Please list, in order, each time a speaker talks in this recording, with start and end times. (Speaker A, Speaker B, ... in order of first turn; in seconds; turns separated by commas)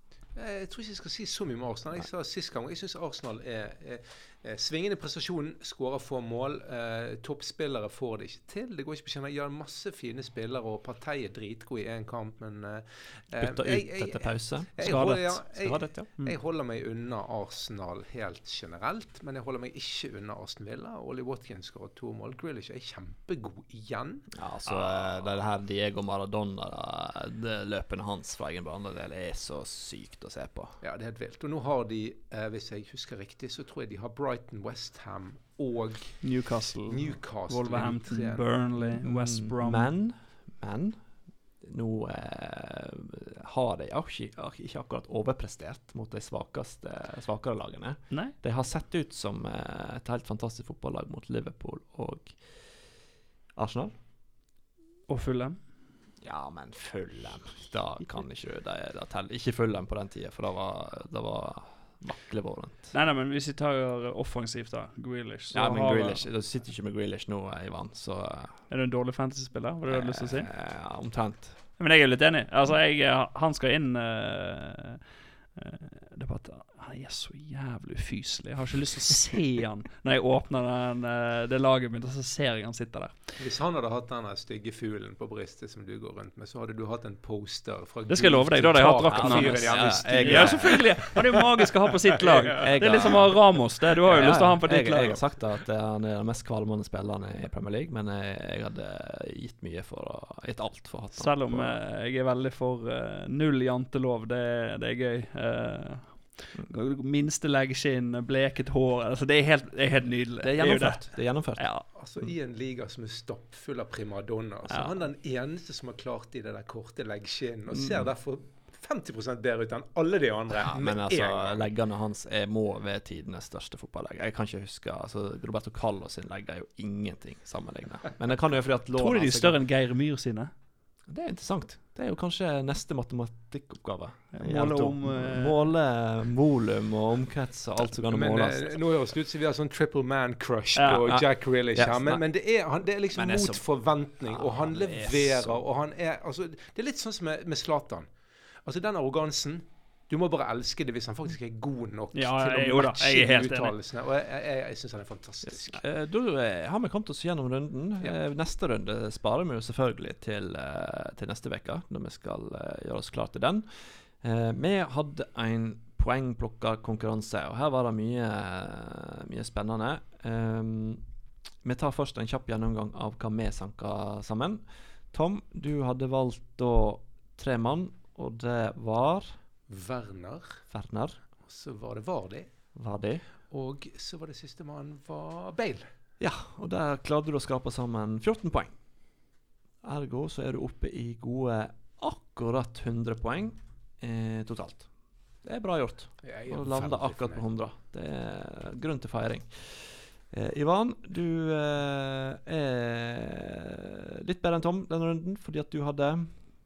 Speaker A: 0.3-25.4, Speaker B: 13.4-16.1, Speaker C: 14.8-15.4, Speaker B: 24.3-30.8, Speaker A: 30.8-38.4, Speaker C: 36.2-39.9, Speaker B: 38.8-41.0, Speaker B: 41.6-52.9, Speaker B: 53.5-53.9, Speaker C: 55.1-55.7, Speaker B: 56.2-62.9, Speaker C: 62.9-66.2, Speaker B: 65.5-68.6, Speaker C: 68.7-70.5, Speaker B: 69.9-71.6, Speaker C: 71.8-83.4, Speaker A: 83.4-91.5, Speaker C: 88.1-95.2, Speaker B: 89.0-91.1, Speaker A: 92.2-93.2, Speaker B: 92.6-101.8, Speaker C: 101.1-111.8, Speaker B: 110.4-111.7, Speaker A: 111.9-121.7, Speaker B: 117.7-118.1, Speaker B: 120.5-129.6, Speaker C: 128.9-130.5, Speaker B: 131.1-138.8, Speaker C: 134.3-135.7, Speaker A: 138.1-148.1, Speaker C: 140.8-141.0, Speaker B: 140.8-142.2, Speaker B: 143.1-143.6, Speaker B: 144.2-145.6, Speaker A: 148.6-155.8, Speaker C: 152.1-153.8, Speaker B: 155.6-171.0, Speaker B: 171.6-179.4, Speaker A: 179.7-180.6, Speaker B: 180.7-181.2, Speaker A: 181.4-182.5, Speaker B: 182.7-183.2, Speaker A: 183.5-185.9, Speaker B: 186.2-188.7, Speaker B: 189.8-194.9, Speaker B: 195.4-206.4, Speaker A: 196.2-197.4